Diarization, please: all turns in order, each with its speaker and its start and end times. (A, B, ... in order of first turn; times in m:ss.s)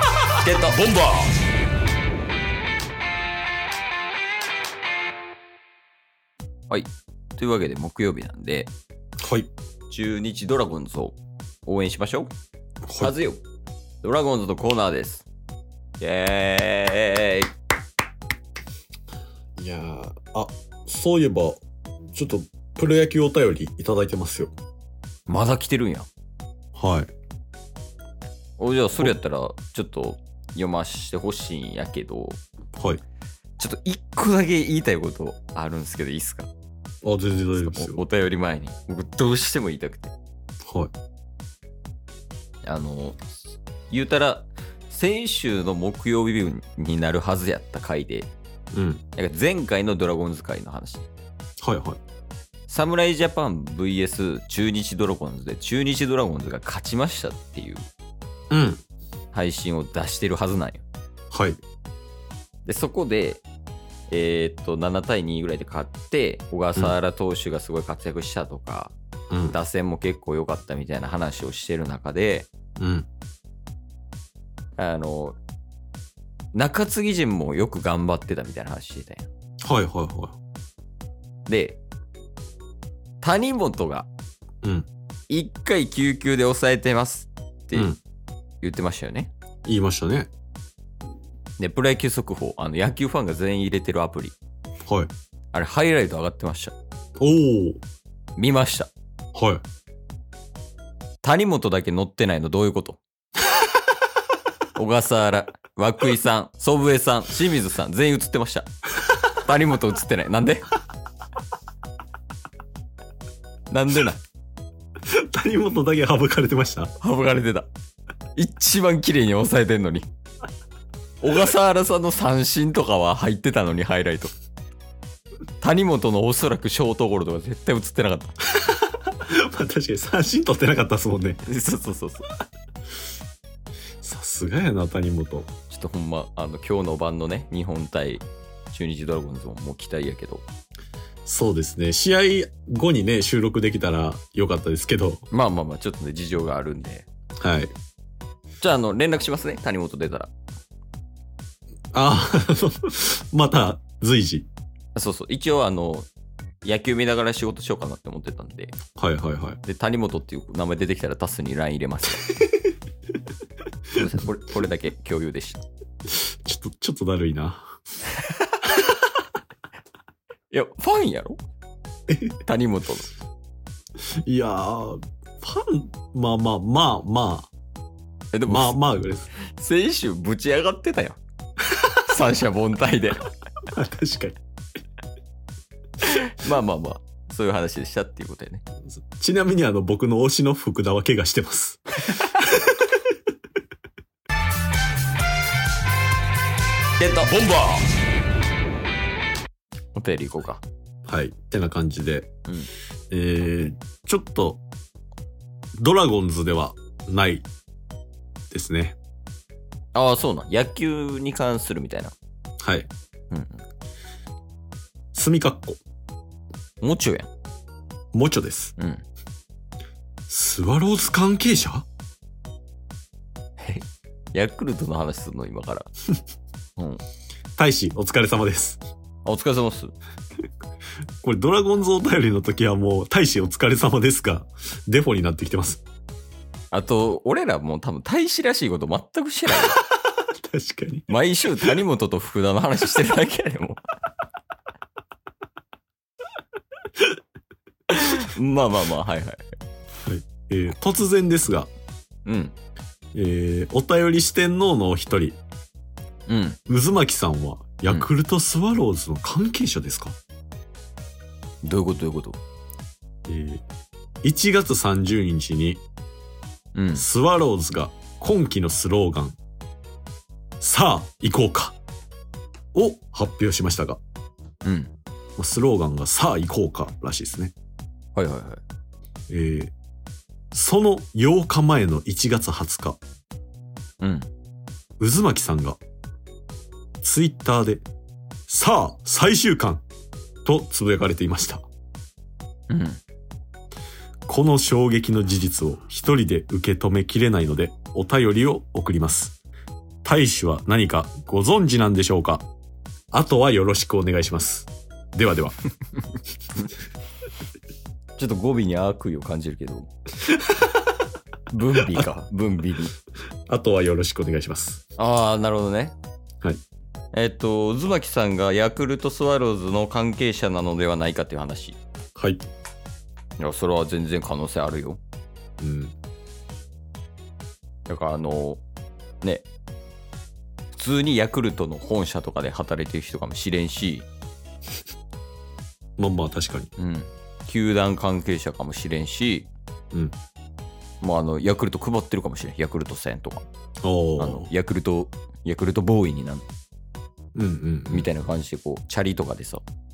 0:00.4-0:00.8 A
0:00.7-0:01.3 B
0:06.7-0:08.7 A
0:09.2-0:09.5 B
0:09.9-0:12.3 A
0:12.8-0:13.1 B
0:13.0-0:13.4 A
0:14.0-0:15.3 A
0:16.0-0:17.5 A
0:19.6-0:21.6 B
0:22.1-0:24.5 B
0:25.3-0:26.1 A
0:26.7-0:27.1 B
0:28.6-0:32.4 A
0:33.6-0:36.5 A
0:37.0-0:38.0 B
0:37.6-0:40.1 A
0:40.6-0:40.9 B
0:42.6-0:43.2 A
0:43.9-0:48.3 A
0:48.7-0:49.0 B
0:49.2-0:51.1 A
0:51.6-0:52.0 B
0:52.7-0:57.8 A
0:58.5-0:58.8 B
0:59.3-1:00.8 A
1:01.3-1:01.6 B
1:02.6-1:03.4 A
1:04.1-1:08.9 A
1:09.3-1:09.6 B
1:09.5-1:12.5 A
1:12.8-1:13.1 B
1:14.8-1:15.4 A
1:16.5-1:19.3 A
1:19.6-1:20.4 B
1:21.5-1:21.8 A
1:23.2-1:24.1 A
1:25.3-1:27.9 A
1:28.6-1:29.3 A
1:29.6-1:30.3 B
1:31.6-1:34.3 A
1:35.5-1:36.7 A
1:37.2-1:37.8 B
1:38.4-1:38.9 A
1:39.3-1:39.6 B
1:41.2-1:43.0 A
1:44.7-1:48.7 A
1:49.2-1:50.7 A
1:53.7-1:54.2 A
1:55.0-1:56.9 B
1:57.0-1:57.7 A
1:58.4-2:00.1 A
2:01.2-2:04.3 A
2:05.6-2:08.4 A
2:08.6-2:11.4 B
2:11.4-2:12.3 A
2:14.0-2:15.5 B
2:15.7-2:20.4 A
2:21.2-2:25.2 B
2:25.3-2:27.0 A
2:27.4-2:27.7 B
2:28.6-2:30.3 A
2:31.9-2:34.5 B
2:34.9-2:36.1 A
2:36.6-2:38.7 A
2:39.0-2:39.6 B
2:39.6-2:42.4 A
2:43.9-2:45.6 A
2:46.4-2:47.7 B
2:50.5-2:51.4 A
2:52.4-2:53.1 A
2:54.2-2:57.5 B
2:58.3-2:58.8 A
2:58.5-2:59.3 B
2:59.4-3:01.2 A
3:01.8-3:03.3 A
3:03.7-3:04.4 B
3:06.0-3:08.6 A
3:08.9-3:13.0 B
3:17.0-3:17.5 A
3:19.9-3:20.6 A
3:21.0-3:22.3 B
3:23.1-3:24.6 B
3:25.8-3:27.4 B
3:28.5-3:29.0 B
3:29.9-3:32.1 A
3:32.6-3:32.9 B
3:33.3-3:33.6 A
3:35.1-3:35.8 B
3:36.8-3:37.3 A
3:38.1-3:38.7 B
3:38.8-3:39.0 A
3:40.3-3:41.8 B
3:43.6-3:45.9 A
3:46.8-3:47.0 A
3:47.6-3:48.8 B
3:49.2-3:49.9 A
3:51.2-3:55.8 B
3:56.7-3:59.8 A
3:59.6-4:01.8 B
4:01.1-4:03.8 A
4:07.9-4:09.4 A
4:10.0-4:11.7 B
4:12.2-4:12.6 A
4:13.1-4:15.4 B
4:16.3-4:16.6 A
4:16.7-4:20.2 B
4:21.6-4:22.4 A
4:23.3-4:23.6 B
4:24.2-4:25.8 B
4:26.7-4:27.0 A
4:27.0-4:29.4 B
4:30.6-4:31.8 B
4:32.7-4:34.0 B
4:34.6-4:34.9 A
4:35.4-4:37.5 B
4:38.2-4:38.6 A
4:39.3-4:39.7 B
4:40.5-4:43.0 B
4:44.0-4:44.3 A
4:45.0-4:45.8 B
4:47.0-4:47.8 B
4:48.5-4:49.8 B
4:50.4-4:51.6 B
4:52.7-4:53.0 A
4:54.3-4:59.4 B
5:00.0-5:02.4 B
5:03.1-5:05.6 B
5:08.2-5:09.9 A
5:10.3-5:10.7 B
5:11.5-5:12.9 A
5:13.5-5:14.8 B
5:15.0-5:15.9 A
5:17.1-5:21.8 A
5:22.2-5:22.4 B
5:23.4-5:25.0 A
5:25.6-5:25.9 B
5:27.9-5:28.6 A
5:30.7-5:34.1 A
5:36.0-5:36.7 B
5:36.8-5:39.5 A
5:41.0-5:43.4 A
5:43.8-5:44.5 B
5:44.2-5:46.4 A
5:47.3-5:48.1 B
5:47.9-5:49.6 A